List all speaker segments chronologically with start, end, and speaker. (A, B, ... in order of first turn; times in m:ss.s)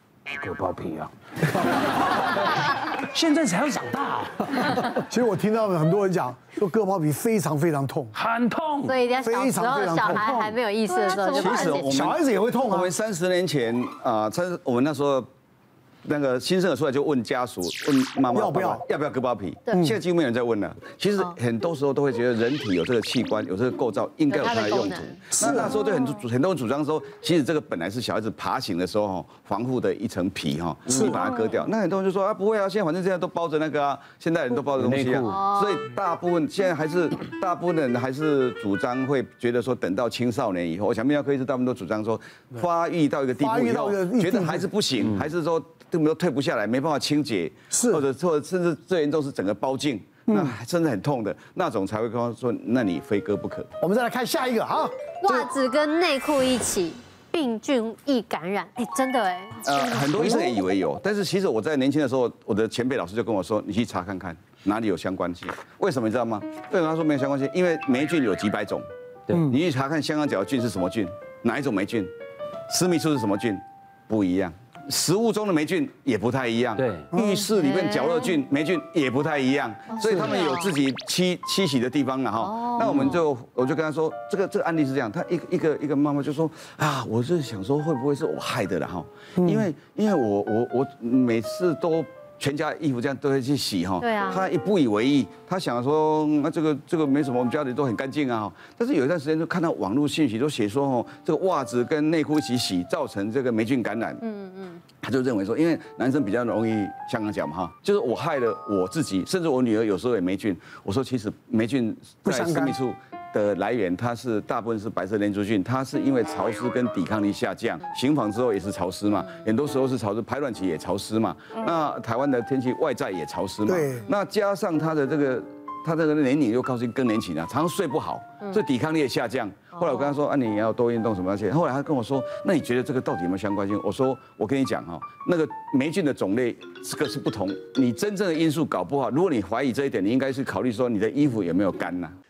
0:00.3-0:04.8 A
0:04.9-0:08.1 B
0:08.1-0:09.0 A
0:08.8-0:12.1 C
0:09.2-0:10.3 B
0:10.0-0:10.6 A
0:11.1-0:15.3 D
0:11.4-0:12.9 B
0:16.0-0:53.7 D
0:18.3-0:18.8 B
0:24.3-0:25.3 C
0:25.3-0:25.7 B
0:30.9-0:31.2 A
0:30.9-0:31.2 B
0:34.7-0:35.5 A
0:43.4-0:44.6 B
0:45.0-0:45.3 A
0:47.7-0:48.0 B
0:50.3-0:50.6 B
0:53.8-0:55.5 B
0:55.2-1:00.5 C
0:59.6-1:12.1 D
1:00.2-1:00.5 B
1:12.7-1:44.2 D
1:16.8-1:17.1 A
1:17.1-1:17.5 B
1:17.6-1:18.2 C
1:19.9-1:20.7 C
1:20.0-1:20.4 B
1:22.4-1:23.0 C
1:22.8-1:23.2 A
1:29.4-1:29.7 B
1:34.0-1:34.5 C
1:44.2-1:44.8 C
1:44.9-2:22.1 D
1:52.2-1:52.8 B
2:03.7-2:04.1 B